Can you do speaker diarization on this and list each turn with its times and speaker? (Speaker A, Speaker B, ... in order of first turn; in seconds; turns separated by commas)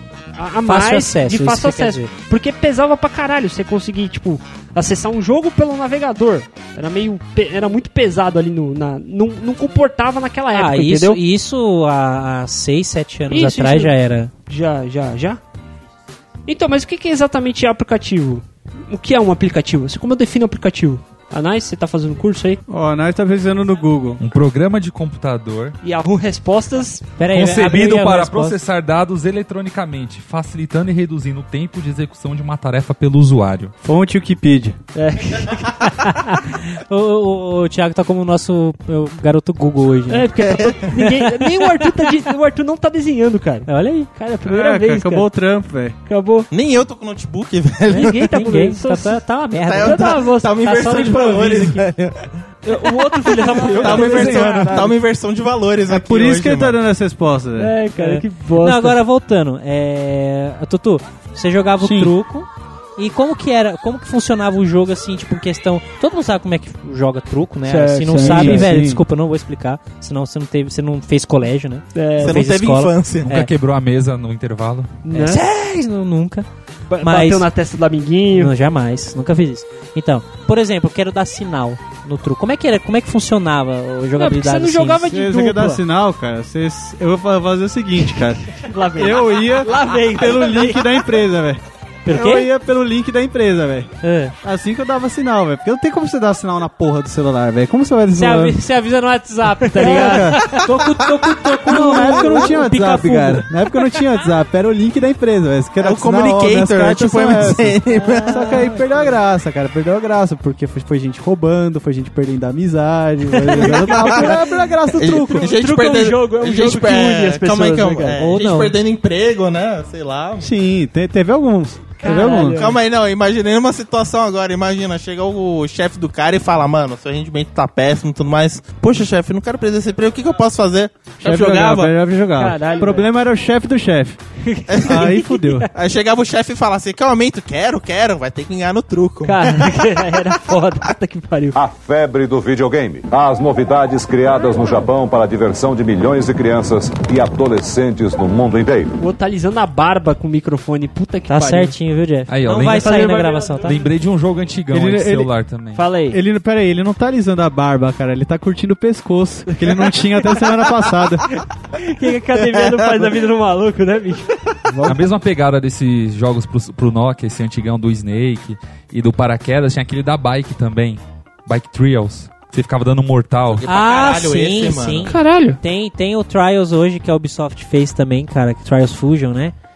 Speaker A: 0.3-11.2, Speaker B: 0.6-2.1, Speaker B: 10.5-14.3, Speaker A: 13.3-13.9, Speaker A: 14.4-15.4, Speaker A: 16.5-22.6, Speaker C: 22.7-24.2, Speaker D: 24.2-25.8, Speaker A: 25.8-27.1, Speaker B: 27.2-28.6, Speaker D: 27.3-33.7, Speaker C: 33.8-34.8, Speaker A: 34.9-35.8, Speaker B: 35.8-40.4, Speaker A: 40.1-45.3, Speaker B: 41.0-41.7, Speaker B: 43.7-44.1, Speaker C: 44.4-46.0, Speaker A: 46.1-46.5, Speaker E: 46.5-48.3, Speaker A: 47.9-50.5, Speaker B: 47.9-51.8, Speaker E: 49.5-52.3, Speaker A: 52.6-54.9, Speaker E: 53.5-56.8, Speaker B: 53.7-54.0, Speaker C: 54.2-54.6, Speaker C: 55.9-57.8, Speaker A: 57.6-59.0, Speaker B: 58.0-73.0, Speaker C: 61.8-62.1, Speaker A: 67.6-68.7, Speaker C: 68.2-69.0, Speaker A: 71.9-72.4, Speaker E: 72.2-73.4, Speaker D: 73.2-75.0, Speaker A: 75.0-75.4, Speaker B: 75.1-76.5, Speaker A: 76.9-78.5, Speaker B: 77.0-77.5, Speaker B: 78.3-85.1, Speaker A: 84.2-85.8, Speaker C: 85.1-98.6, Speaker A: 88.5-91.0, Speaker B: 92.0-92.5, Speaker B: 94.0-94.3, Speaker B: 98.1-103.5, Speaker A: 99.6-100.5, Speaker C: 99.8-100.7, Speaker C: 101.6-115.5, Speaker E: 105.8-108.5, Speaker A: 113.3-114.5, Speaker E: 113.5-114.4, Speaker E: 114.9-120.5, Speaker A: 115.0-118.2, Speaker B: 118.2-118.7, Speaker C: 120.4-122.7, Speaker A: 122.0-122.8, Speaker E: 122.1-131.9, Speaker C: 131.2-134.2, Speaker A: 132.4-133.1, Speaker A: 134.4-135.7, Speaker E: 134.7-135.2, Speaker C: 134.8-135.7, Speaker E: 135.7-140.2, Speaker A: 139.2-141.6, Speaker F: 141.5-148.9, Speaker A: 149.0-151.7, Speaker B: 151.3-153.8, Speaker D: 152.3-152.9, Speaker A: 152.6-153.8, Speaker D: 153.6-155.8, Speaker C: 154.7-155.3, Speaker A: 155.7-156.2, Speaker C: 156.1-161.3, Speaker A: 159.5-160.5, Speaker A: 161.3-164.9, Speaker D: 164.8-173.6, Speaker E: 173.5-175.1, Speaker B: 173.7-179.5, Speaker A: 175.0-175.6